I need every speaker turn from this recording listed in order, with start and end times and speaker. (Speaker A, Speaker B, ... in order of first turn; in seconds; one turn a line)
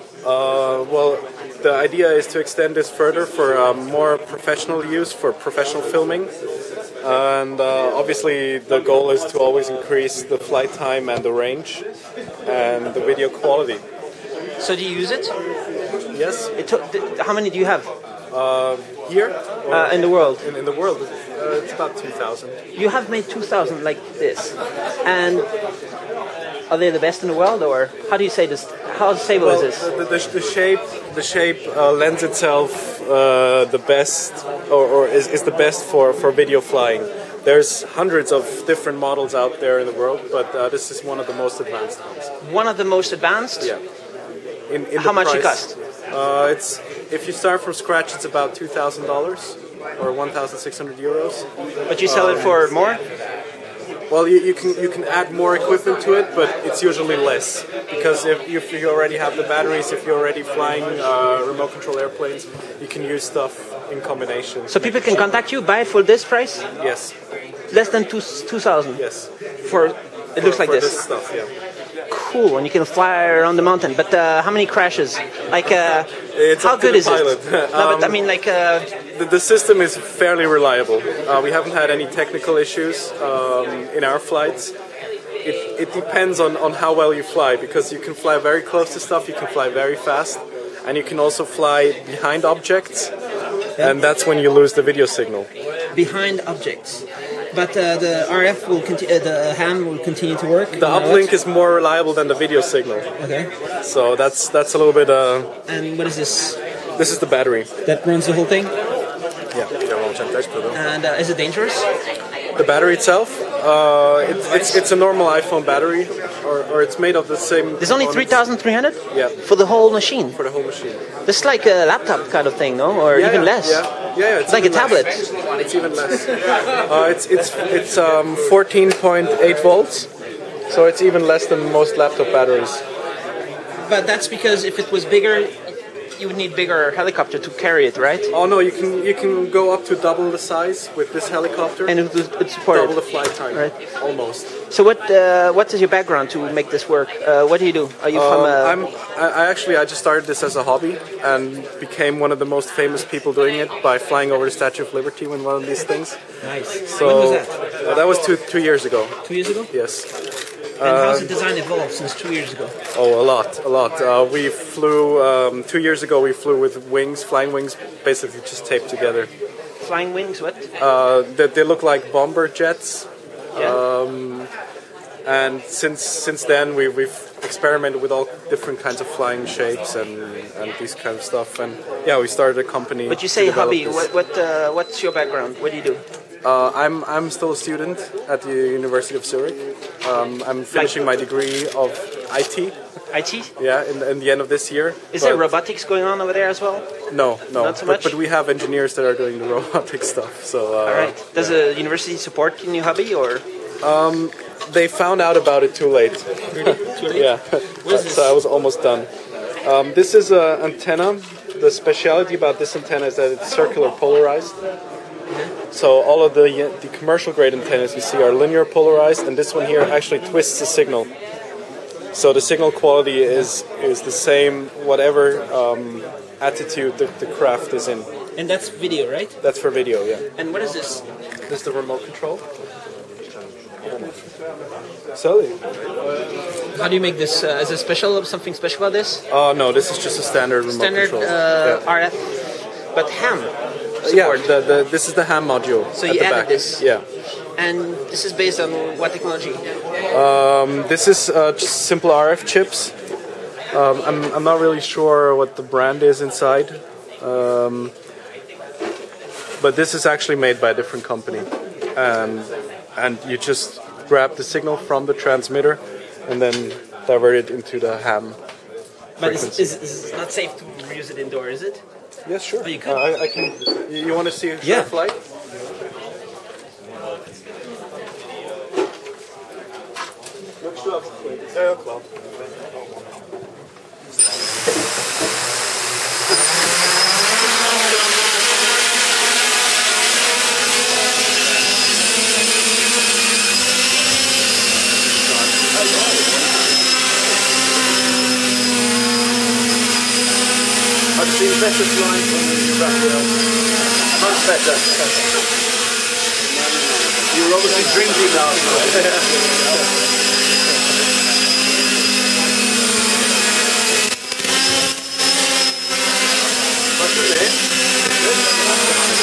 Speaker A: 0.2-6.3
Speaker A: 7.0-11.8
Speaker A: 12.4-13.8
Speaker B: 14.6-15.3
Speaker A: 16.1-16.5
Speaker B: 16.6-17.9
Speaker A: 18.3-22.6
Speaker B: 19.7-20.4
Speaker B: 22.7-25.5
Speaker B: 26.7-29.9
Speaker A: 29.4-42.3
Speaker B: 42.4-43.7
Speaker A: 44.7-51.5
Speaker B: 45.0-45.8
Speaker B: 51.9-53.0
Speaker A: 52.0-52.6
Speaker A: 54.1-65.4
Speaker B: 64.7-66.6
Speaker A: 66.8-67.1
Speaker B: 67.7-69.0
Speaker A: 69.0-69.3
Speaker B: 69.6-71.0
Speaker A: 70.4-71.5
Speaker B: 72.1-78.9
Speaker A: 76.2-78.2
Speaker A: 79.1-84.7
Speaker A: 85.4-93.1
Speaker A: 93.8-95.5
Speaker B: 95.9-101.3
Speaker A: 100.7-103.1
Speaker B: 103.2-103.5
Speaker A: 103.8-105.5
Speaker B: 105.7-106.6
Speaker A: 107.0-107.7
Speaker B: 107.8-108.7
Speaker C: 109.7-110.7
Speaker B: 110.7-111.8
Speaker A: 112.6-118.4
Speaker B: 114.5-114.8
Speaker B: 117.8-120.4
Speaker A: 119.1-119.3
Speaker A: 120.3-121.0
Speaker B: 121.2-123.9
Speaker A: 123.1-130.1
Speaker B: 124.5-125.2
Speaker A: 130.7-132.8
Speaker B: 133.8-138.3
Speaker A: 138.3-141.9
Speaker B: 141.9-143.0
Speaker A: 142.7-144.5
Speaker B: 143.5-143.8
Speaker B: 144.7-148.8
Speaker A: 148.1-156.2
Speaker B: 156.4-157.6
Speaker A: 156.8-159.1
Speaker B: 159.2-159.7
Speaker A: 159.7-160.1
Speaker A: 160.8-161.4
Speaker B: 160.8-162.7
Speaker A: 162.9-169.3
Speaker B: 169.8-170.7
Speaker A: 170.8-174.5
Speaker A: 175.2-184.1
Speaker B: 183.1-186.0
Speaker A: 186.4-192.7
Speaker B: 193.1-193.5
Speaker A: 193.6-195.4
Speaker B: 195.1-196.9
Speaker A: 197.1-201.6
Speaker B: 197.5-198.2
Speaker B: 200.8-203.4
Speaker A: 203.8-209.1
Speaker B: 206.5-208.3
Speaker A: 209.6-214.5
Speaker A: 215.7-221.1
Speaker A: 222.1-228.1
Speaker B: 228.3-229.3
Speaker A: 229.4-230.2
Speaker B: 230.3-231.0
Speaker A: 231.5-232.4
Speaker A: 235.1-235.6
Speaker B: 236.7-239.2
Speaker A: 239.3-241.8
Speaker B: 240.7-244.5
Speaker A: 244.0-247.0
Speaker B: 245.9-246.8
Speaker B: 247.6-249.6
Speaker A: 250.1-252.9
Speaker A: 253.7-257.9
Speaker A: 259.6-268.4
Speaker B: 269.2-271.8
Speaker A: 269.2-269.8
Speaker A: 272.2-275.2
Speaker B: 272.6-273.0
Speaker B: 274.6-274.9
Speaker A: 280.6-282.0
Speaker C: 295.6-296.5
Speaker C: 301.2-303.4
Speaker C: 304.1-305.0
Speaker C: 306.8-309.8
Speaker C: 317.0-317.5